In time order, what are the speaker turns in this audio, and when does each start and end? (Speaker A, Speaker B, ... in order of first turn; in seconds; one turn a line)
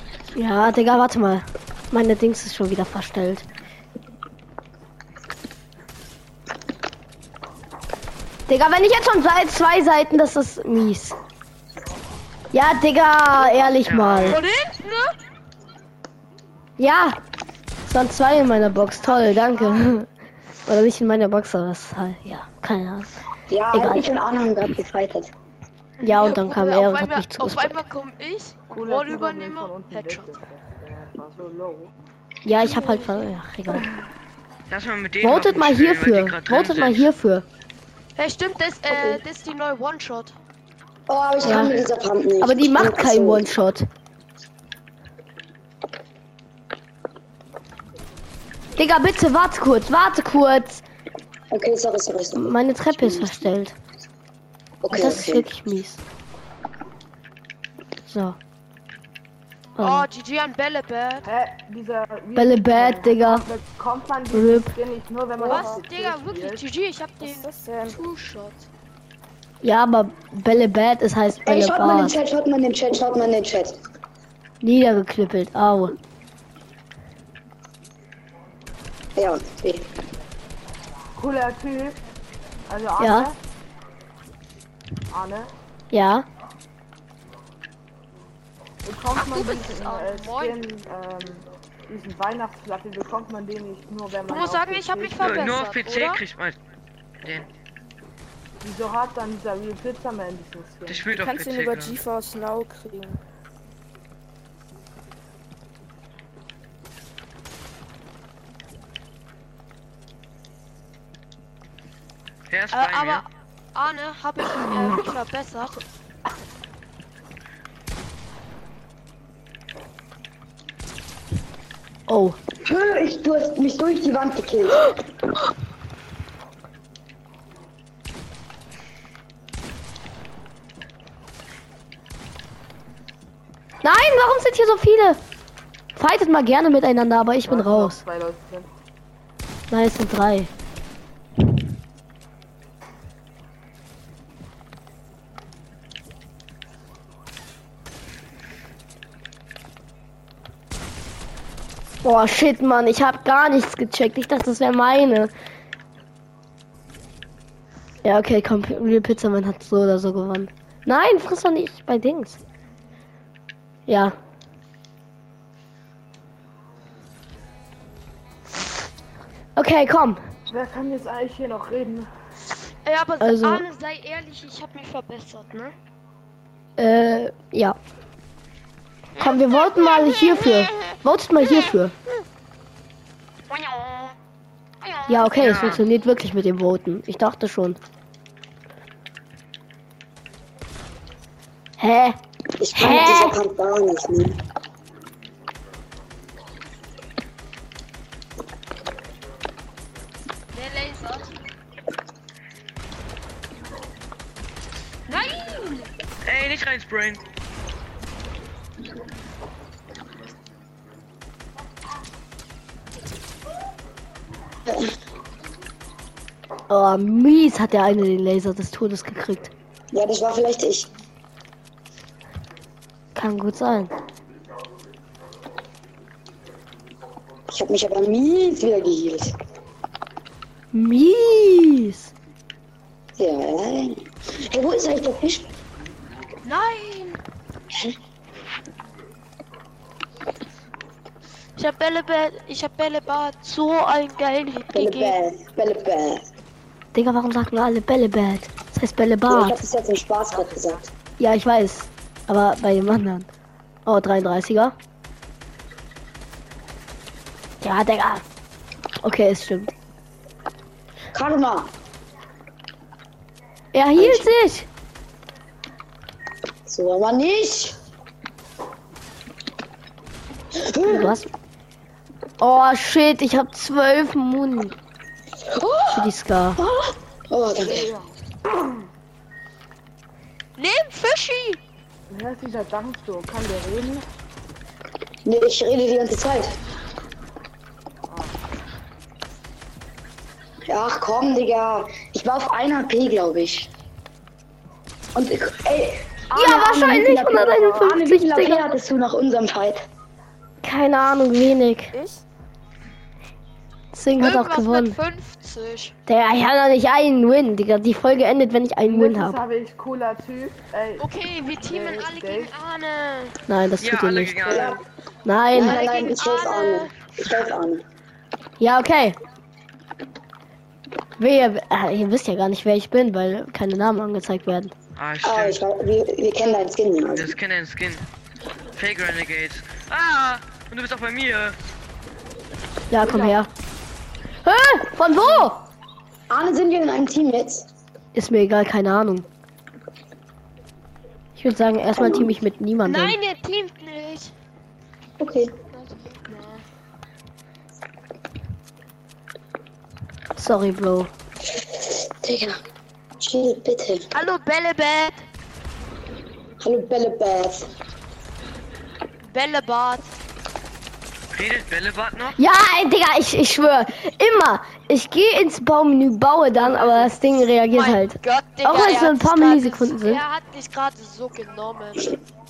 Speaker A: 0.3-3.4
Speaker A: 8.5-11.2
Speaker A: 12.5-14.4
Speaker B: 13.8-14.4
Speaker C: 14.2-15.1
Speaker A: 16.8-17.2
Speaker A: 17.8-20.1
Speaker C: 19.0-19.9
Speaker A: 20.6-23.2
Speaker D: 23.5-25.3
Speaker A: 23.7-24.1
Speaker C: 26.0-30.3
Speaker A: 26.0-27.8
Speaker E: 28.7-31.9
Speaker A: 32.4-33.9
Speaker C: 32.5-33.3
Speaker B: 34.7-37.1
Speaker A: 35.2-37.4
Speaker C: 38.1-40.3
Speaker D: 41.1-43.5
Speaker A: 41.4-41.8
Speaker A: 42.4-43.9
Speaker A: 48.8-50.8
Speaker D: 51.5-53.3
Speaker A: 52.3-53.7
Speaker D: 54.8-55.5
Speaker A: 54.9-56.0
Speaker A: 58.1-58.4
Speaker A: 59.8-60.1
Speaker C: 59.8-61.3
Speaker E: 61.2-66.6
Speaker A: 62.4-63.5
Speaker A: 64.3-64.7
Speaker C: 65.4-68.7
Speaker F: 67.2-68.0
Speaker A: 69.6-72.1
Speaker D: 71.4-73.7
Speaker A: 74.6-75.9
Speaker D: 79.2-79.9
Speaker E: 81.2-82.0
Speaker E: 82.7-83.4
Speaker A: 83.0-83.3
Speaker E: 85.1-85.5
Speaker A: 85.9-86.2
Speaker E: 88.8-95.5
Speaker C: 89.1-90.6
Speaker C: 94.3-96.2
Speaker B: 95.2-96.6
Speaker B: 97.2-97.5
Speaker E: 98.6-101.1
Speaker B: 100.9-102.0
Speaker F: 101.1-103.2
Speaker B: 112.5-113.2
Speaker C: 112.7-115.8
Speaker A: 122.1-122.4
Speaker D: 122.6-124.9
Speaker A: 133.8-135.2
Speaker A: 135.9-138.0
Speaker E: 137.4-138.7
Speaker A: 139.7-140.5
Speaker A: 152.0-155.3
Speaker A: 158.0-162.4
Speaker A: 163.9-164.2
Speaker A: 169.6-170.2
Speaker E: 170.5-172.1
Speaker C: 172.8-175.7
Speaker A: 173.2-173.6
Speaker A: 176.8-177.8
Speaker C: 179.2-180.9
Speaker A: 179.2-181.9
Speaker C: 183.5-184.1
Speaker A: 185.1-187.8
Speaker B: 185.3-185.8
Speaker A: 191.8-192.2
Speaker D: 192.6-194.4
Speaker A: 192.7-193.4
Speaker C: 200.5-201.3
Speaker C: 205.1-205.9
Speaker B: 206.2-207.2
Speaker A: 216.7-219.5
Speaker D: 219.9-220.9
Speaker A: 223.1-223.9
Speaker D: 227.5-229.3
Speaker A: 230.7-232.1
Speaker D: 233.2-235.5
Speaker C: 236.4-237.2
Speaker C: 241.6-245.2
Speaker D: 244.7-246.2
Speaker A: 246.9-249.6
Speaker D: 249.3-250.8
Speaker A: 251.2-253.3
Speaker A: 253.8-254.7
Speaker A: 257.6-258.2
Speaker A: 259.0-259.7
Speaker D: 261.1-261.7
Speaker A: 263.7-264.7
Speaker D: 263.9-264.3
Speaker D: 266.7-267.8
Speaker D: 270.6-271.1
Speaker A: 270.9-271.3
Speaker A: 272.4-274.7
Speaker D: 275.5-277.9
Speaker A: 275.9-276.6
Speaker E: 277.6-278.1
Speaker C: 280.6-281.6
Speaker E: 282.1-284.0
Speaker D: 285.2-286.6
Speaker E: 288.1-288.4
Speaker D: 290.7-293.7
Speaker D: 295.1-299.8
Speaker A: 296.3-298.6
Speaker A: 300.6-301.9
Speaker F: 301.9-302.2
Speaker A: 303.9-305.0
Speaker C: 304.2-305.9
Speaker A: 306.1-309.4
Speaker E: 308.8-312.5
Speaker C: 311.0-313.4
Speaker A: 313.5-314.6
Speaker B: 313.8-314.8
Speaker E: 314.4-314.8
Speaker D: 314.4-314.8
Speaker A: 315.2-315.8
Speaker C: 315.5-316.9
Speaker D: 315.5-317.8
Speaker A: 318.6-319.2
Speaker A: 321.2-324.7
Speaker B: 324.9-325.6
Speaker D: 325.2-327.3
Speaker B: 327.1-328.1
Speaker B: 328.8-331.6
Speaker A: 332.9-333.5
Speaker E: 333.0-333.4
Speaker A: 334.4-335.6
Speaker C: 335.2-335.5
Speaker D: 336.3-337.6
Speaker A: 338.1-339.2
Speaker A: 341.4-343.1
Speaker D: 342.0-342.4
Speaker C: 342.8-344.3
Speaker D: 345.2-345.5
Speaker C: 345.7-346.6
Speaker A: 350.4-351.1
Speaker D: 351.7-352.6
Speaker D: 353.2-354.1
Speaker C: 354.1-355.2
Speaker D: 356.6-357.6
Speaker C: 359.2-360.1
Speaker B: 361.3-362.4
Speaker A: 362.4-370.2
Speaker C: 367.7-372.1